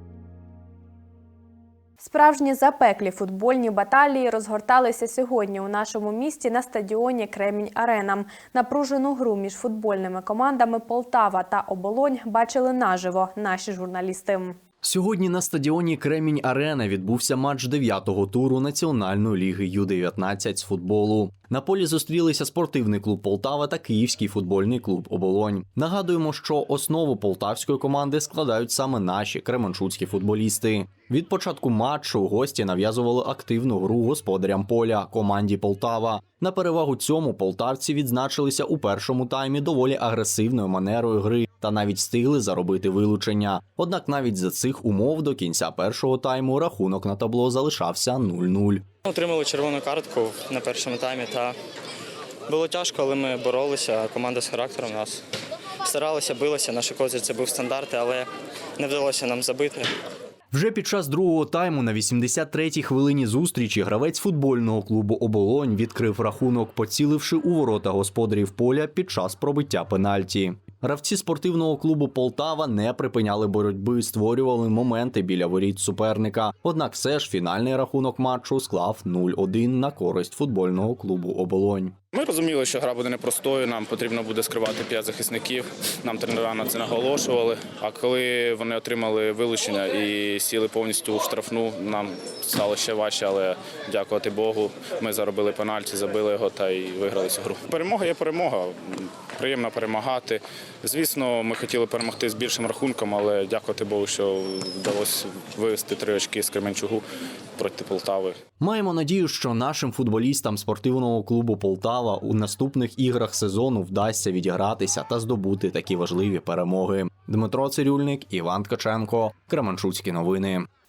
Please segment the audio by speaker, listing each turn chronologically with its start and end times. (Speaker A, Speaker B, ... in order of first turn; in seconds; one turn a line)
Speaker A: 2.0-14.6
Speaker B: 14.8-48.9
Speaker C: 49.0-51.5
Speaker C: 52.5-55.2
Speaker C: 55.8-58.3
Speaker C: 58.8-59.9
Speaker B: 60.5-82.0
Speaker D: 82.1-107.0
Speaker D: 107.6-108.4
Speaker B: 108.6-120.7